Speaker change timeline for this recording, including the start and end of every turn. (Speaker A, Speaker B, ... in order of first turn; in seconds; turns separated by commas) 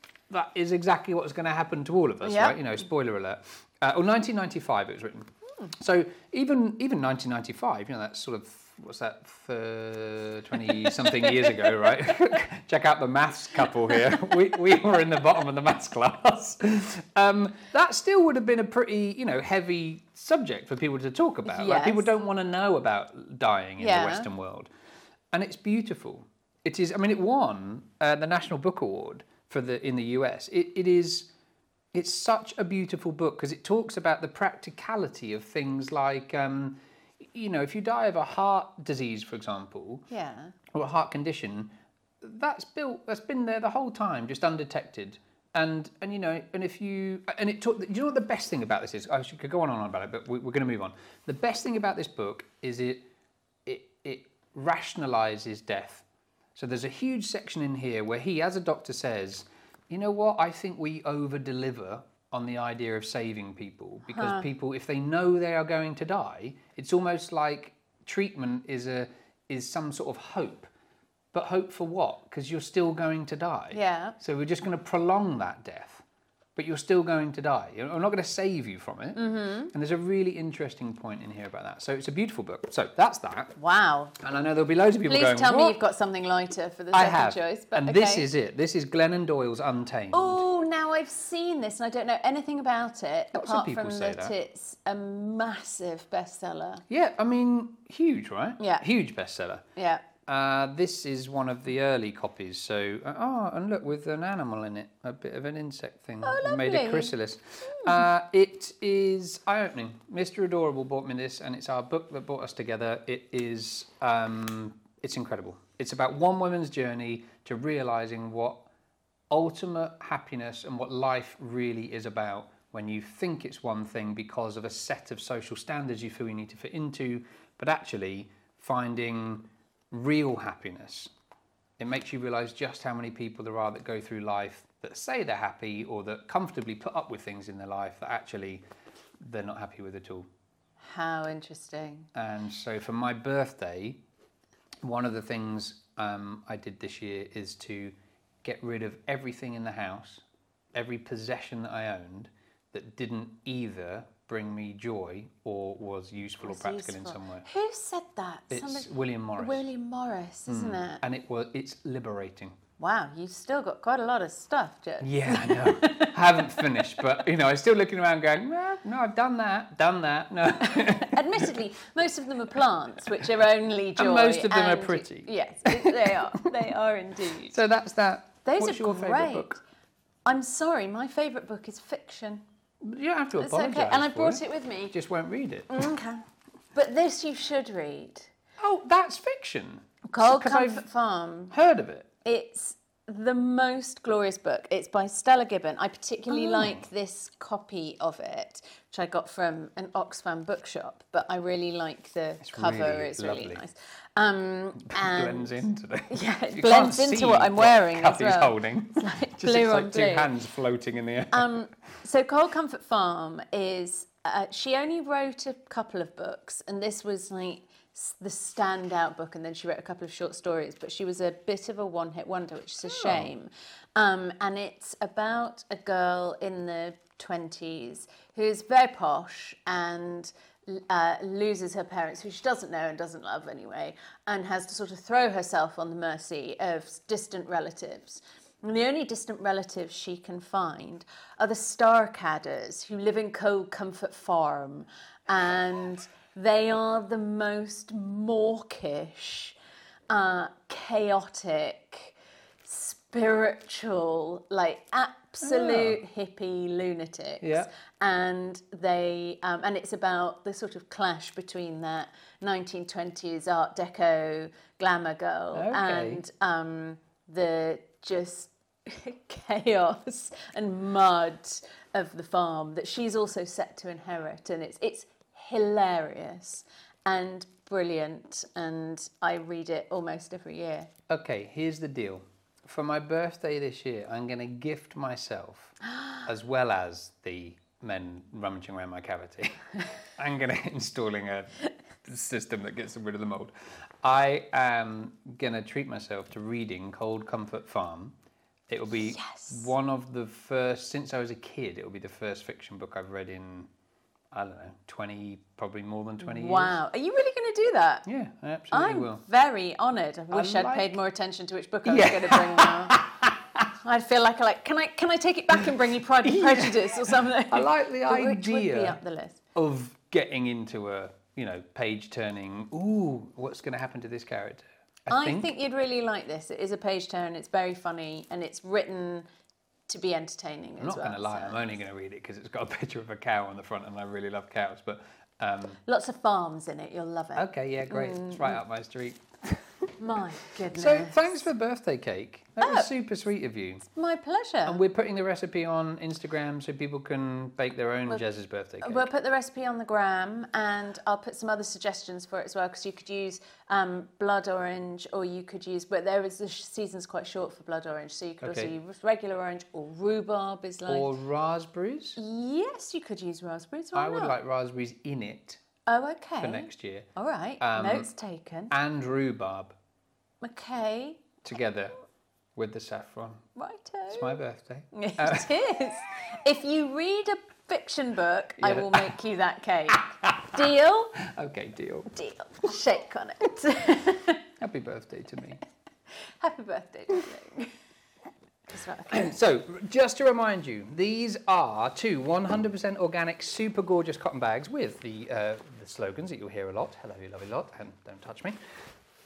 Speaker A: 0.3-24.7, Speaker B: 2.2-2.6, Speaker B: 11.1-11.9, Speaker B: 21.5-22.1, Speaker B: 23.8-24.3, Speaker A: 25.3-31.3, Speaker A: 31.9-40.1, Speaker B: 40.1-40.5, Speaker A: 40.7-53.1, Speaker A: 53.7-70.7, Speaker B: 64.1-64.5, Speaker A: 71.3-76.0, Speaker B: 73.7-74.2, Speaker A: 76.6-83.6, Speaker B: 79.2-79.7, Speaker B: 83.6-84.2, Speaker A: 84.2-85.8, Speaker B: 85.0-88.3, Speaker A: 86.9-90.4, Speaker B: 90.1-96.8, Speaker A: 93.3-94.3, Speaker A: 96.9-99.6, Speaker B: 98.6-98.8, Speaker B: 99.8-100.1, Speaker A: 100.3-118.7, Speaker B: 106.2-107.2, Speaker A: 119.3-131.1, Speaker A: 131.8-138.6, Speaker A: 139.2-140.3, Speaker B: 140.8-142.1, Speaker A: 142.1-144.0, Speaker A: 144.8-157.4, Speaker B: 156.4-161.0, Speaker A: 158.5-159.6, Speaker A: 160.5-162.6, Speaker B: 162.8-167.0, Speaker A: 165.0-171.6, Speaker B: 170.6-177.6, Speaker A: 174.0-176.2, Speaker A: 177.5-179.6, Speaker B: 178.4-179.6, Speaker B: 180.2-182.4, Speaker A: 182.8-185.8, Speaker B: 183.4-185.0, Speaker B: 185.7-186.2, Speaker B: 186.8-188.3, Speaker A: 188.6-190.8, Speaker B: 190.1-191.5, Speaker A: 191.5-192.1, Speaker B: 192.2-210.3, Speaker A: 196.3-196.8, Speaker A: 202.4-203.6, Speaker A: 204.8-211.6, Speaker B: 211.3-249.6, Speaker A: 222.8-223.3, Speaker B: 250.1-280.9, Speaker A: 255.4-256.0, Speaker A: 257.4-257.7, Speaker A: 265.5-266.2, Speaker A: 281.1-298.1, Speaker A: 298.7-303.7, Speaker B: 299.0-299.7, Speaker A: 304.3-306.8, Speaker B: 306.2-308.1, Speaker A: 308.1-309.2, Speaker B: 308.7-313.0, Speaker A: 310.3-310.9, Speaker A: 311.9-313.6, Speaker B: 313.7-319.4, Speaker A: 316.2-319.0, Speaker A: 319.6-325.5, Speaker B: 325.1-329.3, Speaker B: 329.9-331.6, Speaker A: 330.8-335.8, Speaker B: 335.9-338.6, Speaker A: 337.4-339.9, Speaker B: 340.0-341.3, Speaker A: 340.7-343.9, Speaker B: 342.6-342.9, Speaker B: 343.9-344.8, Speaker A: 344.7-349.1, Speaker B: 348.8-361.1, Speaker A: 358.4-358.7, Speaker A: 360.9-362.2, Speaker B: 362.2-364.4, Speaker A: 363.9-365.6, Speaker B: 365.9-368.7, Speaker A: 366.4-367.1, Speaker A: 367.6-368.1, Speaker A: 368.7-369.8, Speaker B: 370.4-371.3, Speaker A: 371.4-372.0, Speaker A: 372.6-373.4, Speaker B: 373.6-374.4, Speaker A: 374.1-375.5, Speaker B: 374.9-381.2, Speaker A: 378.6-379.1, Speaker A: 379.9-380.6, Speaker A: 381.2-382.1, Speaker B: 382.1-384.4, Speaker A: 384.6-385.6, Speaker B: 386.2-387.7, Speaker B: 388.7-389.4, Speaker A: 389.1-398.6